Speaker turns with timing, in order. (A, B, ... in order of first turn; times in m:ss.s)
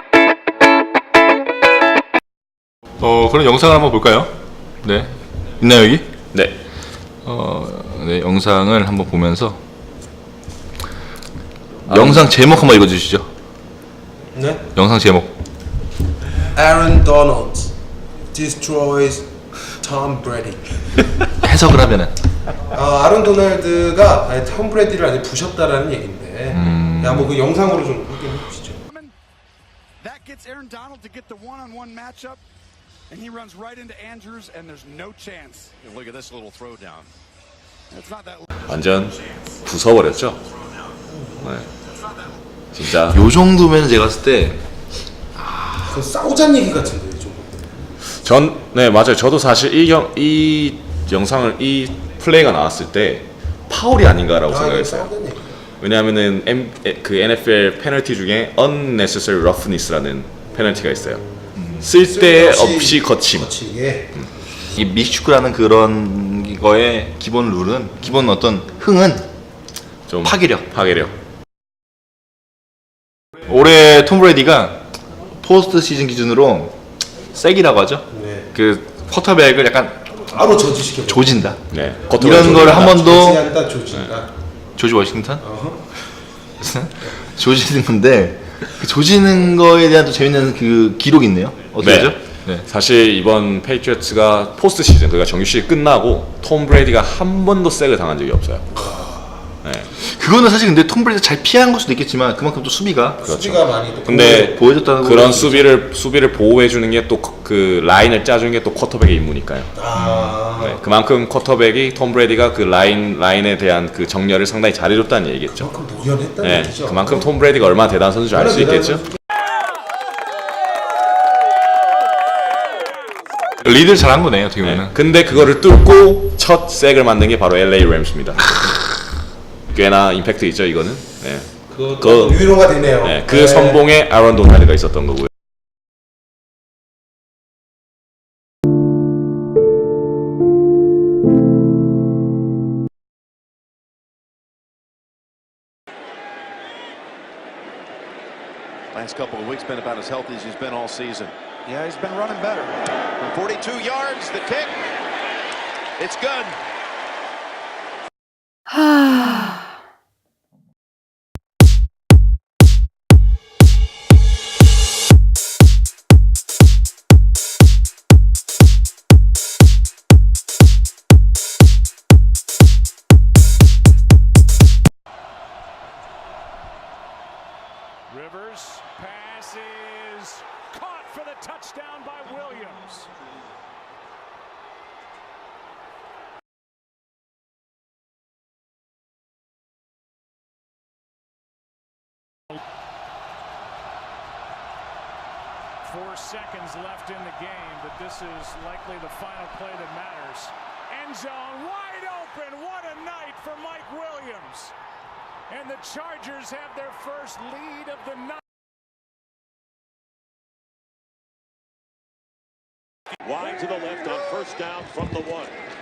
0:03.0-0:06.0 A
0:07.2-0:09.6 A
0:11.9-0:13.3 A
0:11.9-0:12.3 B
0:14.3-0:14.6 C
0:14.7-0:15.3 A
0:16.5-0:17.7 C
0:18.3-0:20.6 C
0:21.4-0:22.2 A
0:22.7-0:28.8 C
0:26.5-0:27.3 A
0:30.0-0:32.4 D
0:33.1-0:35.7 D
0:35.8-0:37.1 E
0:37.9-0:38.4 D
0:38.7-0:40.4 B
0:41.1-0:41.5 C
0:41.4-0:41.7 B
0:42.7-0:43.2 B
0:43.1-0:44.6 A
0:45.8-0:47.8 C
0:48.1-0:55.1 B
0:54.5-0:55.5 C
0:55.8-1:01.2 B
1:00.5-1:04.1 C
1:01.6-1:01.9 A
1:01.8-1:03.5 B
1:04.8-1:09.3 A
1:10.1-1:11.1 B
1:10.2-1:10.8 A
1:13.5-1:14.8 A
1:15.4-1:16.7 A
1:17.3-1:20.1 A
1:18.1-1:18.5 C
1:20.3-1:21.5 C
1:21.0-1:21.6 A
1:21.7-1:23.0 B
1:22.1-1:23.4 A
1:22.2-1:24.3 C
1:24.8-1:25.4 A
1:25.4-1:25.8 C
1:26.6-1:32.6 A
1:31.8-1:38.7 B
1:38.7-1:39.5 C
1:39.6-1:39.9 B
1:40.0-1:43.2 A
1:43.2-1:44.4 C
1:43.2-1:49.7 B
1:44.0-1:45.7 A
1:49.8-1:50.8 C
1:50.0-1:50.4 A
1:50.6-1:55.7 B
1:55.5-1:57.5 C
1:56.4-1:59.0 B
1:58.3-1:59.0 C
2:03.6-2:04.9 A
2:04.6-2:08.5 B
2:09.7-2:12.5 B
2:11.7-2:13.8 C
2:13.0-2:15.3 B
2:28.9-2:34.7 E
2:31.8-2:32.6 D
2:36.0-2:36.6 E
2:58.1-3:03.0 F
3:15.8-3:24.7 F
3:25.5-3:28.4 F
3:33.2-3:35.5 G